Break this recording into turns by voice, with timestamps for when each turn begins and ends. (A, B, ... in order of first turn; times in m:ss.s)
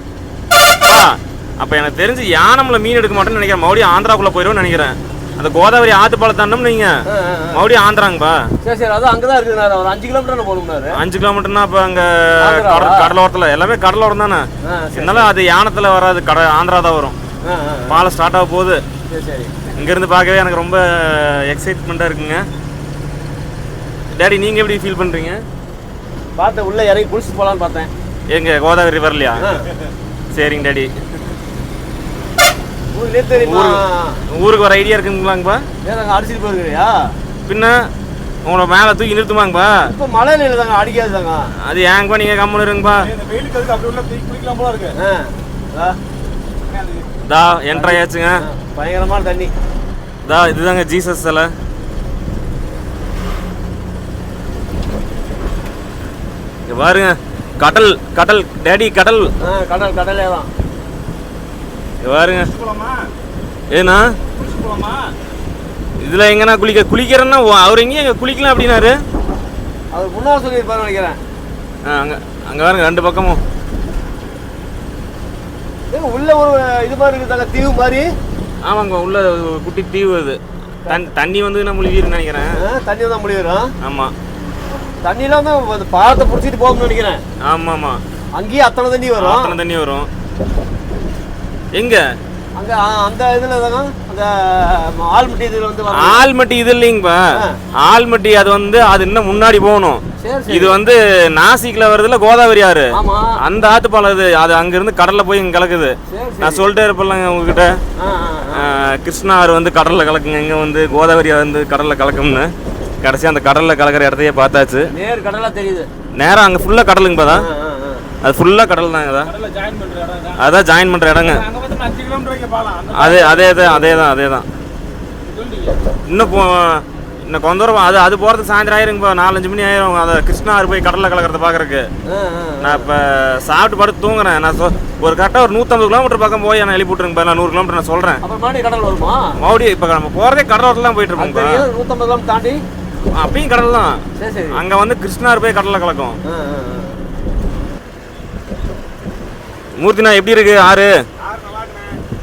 0:00.8-0:07.0 A
0:07.1-0:07.6 B
0:07.5-0:08.5 A
0:08.6-0:11.0 B
0:10.9-0:17.2 A
0:12.4-0:13.1 B
0:14.6-0:15.3 B
0:17.4-0:18.0 B
0:17.9-0:18.8 A
0:19.1-0:19.7 B
0:19.7-0:22.4 A
0:24.2-0:25.4 A
0:26.4-0:27.9 B
0:28.3-0:29.5 A
0:29.4-0:29.7 B
0:30.3-0:30.9 A
0:32.9-0:34.2 B
0:33.4-0:33.8 A
0:34.3-0:35.6 A
0:35.8-0:37.1 B
0:37.5-0:37.9 A
0:38.4-0:39.9 A
0:39.9-0:41.5 B
0:41.7-0:43.1 A
0:43.0-0:45.0 C
0:45.0-0:46.0 B
0:46.7-0:47.1 C
0:47.3-0:48.4 A
0:47.7-0:49.5 B
0:50.3-0:51.5 A
0:56.7-0:59.3 A
0:59.4-1:00.5 B
1:02.0-1:02.5 A
1:02.4-1:03.1 C
1:03.7-1:04.1 A
1:04.4-1:05.0 C
1:06.0-1:09.0 A
1:09.9-1:11.2 B
1:11.8-1:13.4 A
1:15.9-1:18.1 B
1:18.6-1:22.6 A
1:22.6-1:23.7 B
1:23.8-1:24.1 A
1:25.0-1:27.2 B
1:27.4-1:28.0 A
1:28.4-1:29.6 B
1:29.2-1:30.1 A
1:31.8-1:32.0 A
1:32.6-1:36.3 B
1:35.9-1:47.8 A
1:40.2-1:40.8 B
1:42.9-1:43.4 B
1:46.1-1:46.7 B
1:48.0-1:48.7 B
1:48.5-1:54.9 A
1:54.9-1:55.9 B
1:56.2-1:57.5 A
1:57.3-1:58.1 B
1:58.2-1:59.3 A
1:59.2-2:00.4 C
2:00.4-2:01.4 A
2:01.2-2:03.7 C
2:02.9-2:04.5 A
2:03.0-2:04.1 B
2:05.2-2:05.8 C
2:06.1-2:11.9 A
2:12.1-2:12.9 B
2:12.6-2:18.2 A
2:18.2-2:19.4 B
2:19.4-2:21.6 A
2:21.2-2:22.6 B
2:23.1-2:26.2 A
2:24.2-2:24.6 B
2:26.2-2:27.0 B
2:29.8-2:30.9 A
2:31.2-2:32.0 C